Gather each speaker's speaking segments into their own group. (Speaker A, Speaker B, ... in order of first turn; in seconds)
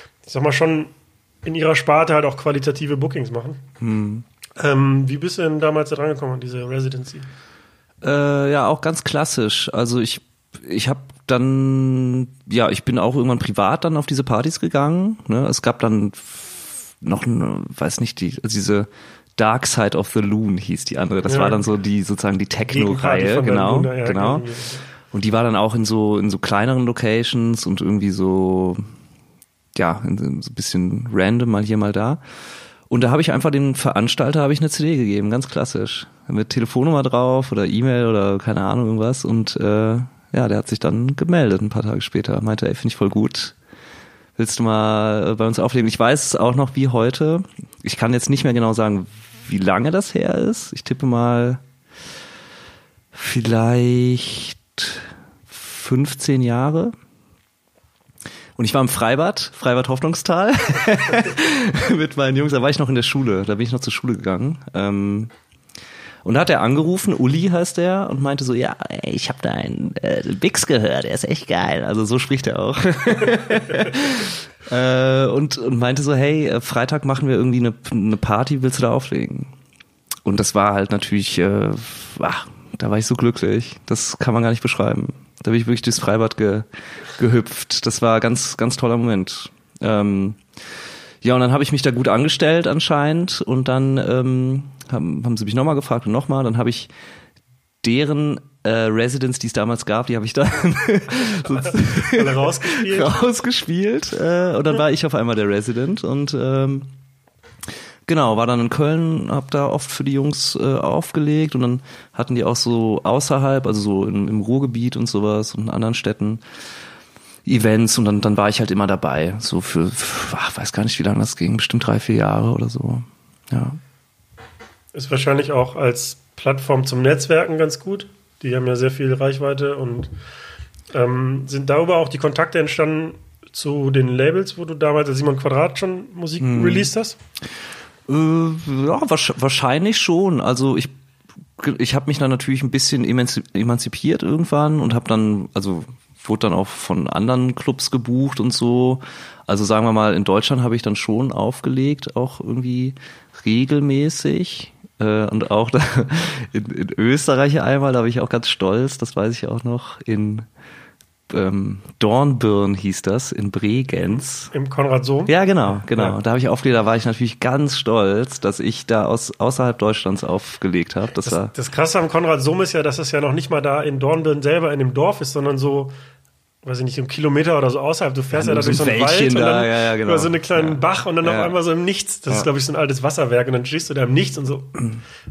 Speaker A: 0.3-0.9, 1.4-3.6, 4.6-7.3, 21.3-21.6, 22.7-24.8, 101.5-103.2, 124.9-130.1, 130.9-137.2, 164.5-165.3, 165.9-166.2, 171.2-175.9, 176.6-184.8
Speaker B: 3.8-4.2, 8.0-24.4, 25.1-28.9, 29.8-32.2, 32.9-43.5, 44.4-51.6, 53.1-56.9, 58.6-65.3, 66.2-79.5, 80.2-90.4, 91.2-96.9, 97.8-106.9, 108.1-116.4, 117.5-123.8, 136.4-136.9, 138.1-140.9, 141.6-160.5, 161.3-164.5, 165.3-171.5, 178.3-181.6